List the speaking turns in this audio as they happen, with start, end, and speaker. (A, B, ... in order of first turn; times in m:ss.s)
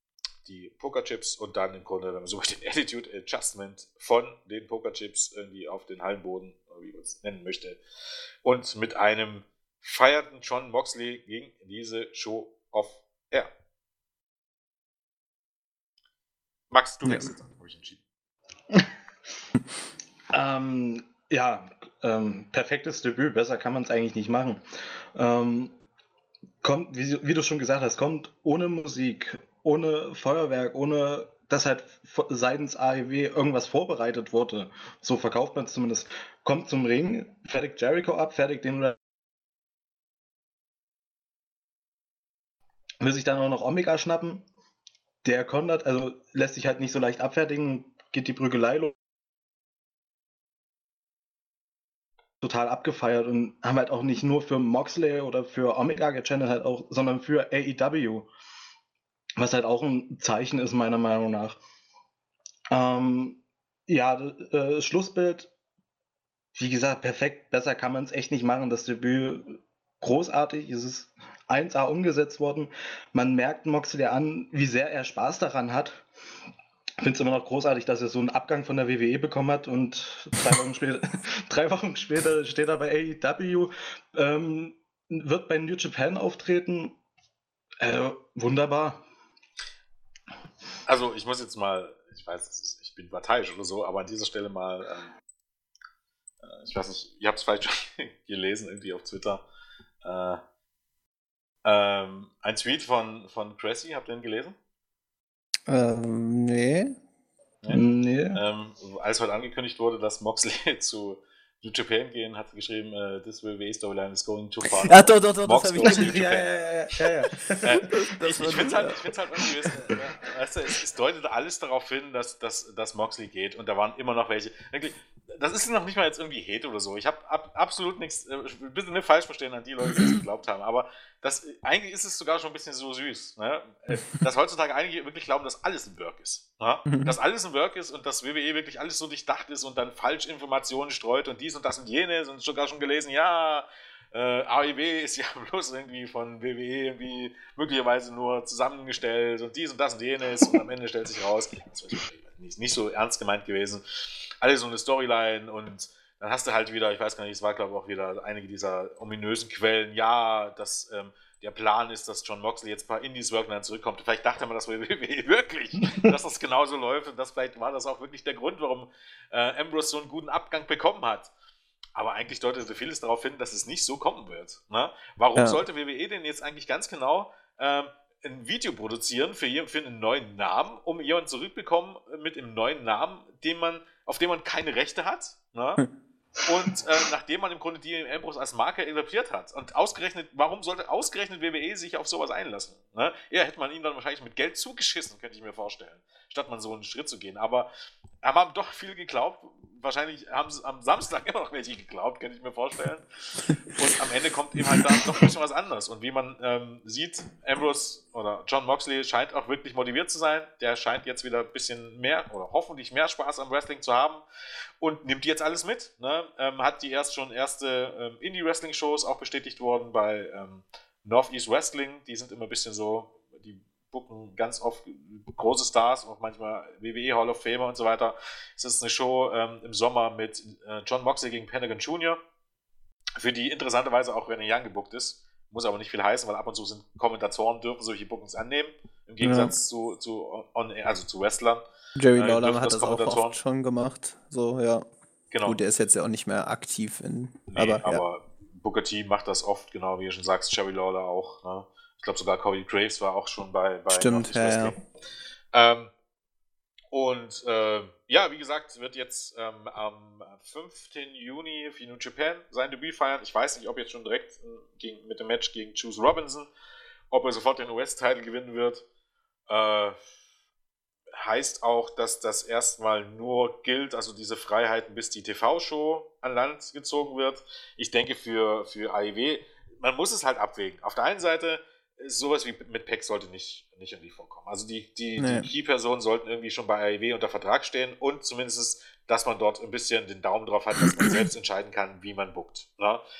0:00.4-0:07.8 A
0:08.4-0:13.5 A
0:16.7-0:18.0 A
0:20.3-0:24.6 B
0:25.1-0:25.7 B
0:26.6-0:39.0 B
0:43.0-0:44.4 B
0:45.2-0:48.9 B
0:52.4-0:58.3 B
0:59.4-1:01.6 B
1:02.7-1:05.5 B
1:06.6-1:16.0 B
1:17.0-1:27.0 B
1:27.8-1:29.0 B
1:30.9-1:35.1 A
1:36.4-1:39.4 A
1:40.0-1:40.4 A
1:41.6-1:44.6 A
1:45.7-1:46.9 C
1:47.7-1:48.4 B
1:48.3-1:56.5 A
1:54.8-1:56.2 C
1:55.8-1:57.6 B
1:57.6-2:51.3 A
1:57.7-1:59.0 C
2:16.9-2:17.1 C
2:52.0-3:05.8 A
2:55.4-2:55.6 C
3:06.4-3:17.7 A
3:18.2-3:23.0 A
3:23.6-3:34.2 A
3:34.8-3:52.2 A
3:53.2-4:01.6 A
3:59.2-3:59.5 C
4:02.0-4:04.8 C
4:02.2-4:03.3 A
4:05.3-4:05.6 A
4:05.4-4:08.0 C
4:07.5-4:14.8 A
4:13.9-4:14.8 C
4:15.5-4:15.9 A
4:16.9-4:26.5 A
4:27.1-4:28.8 A
4:29.5-4:30.0 A
4:31.2-4:53.0 A
4:45.2-4:45.5 C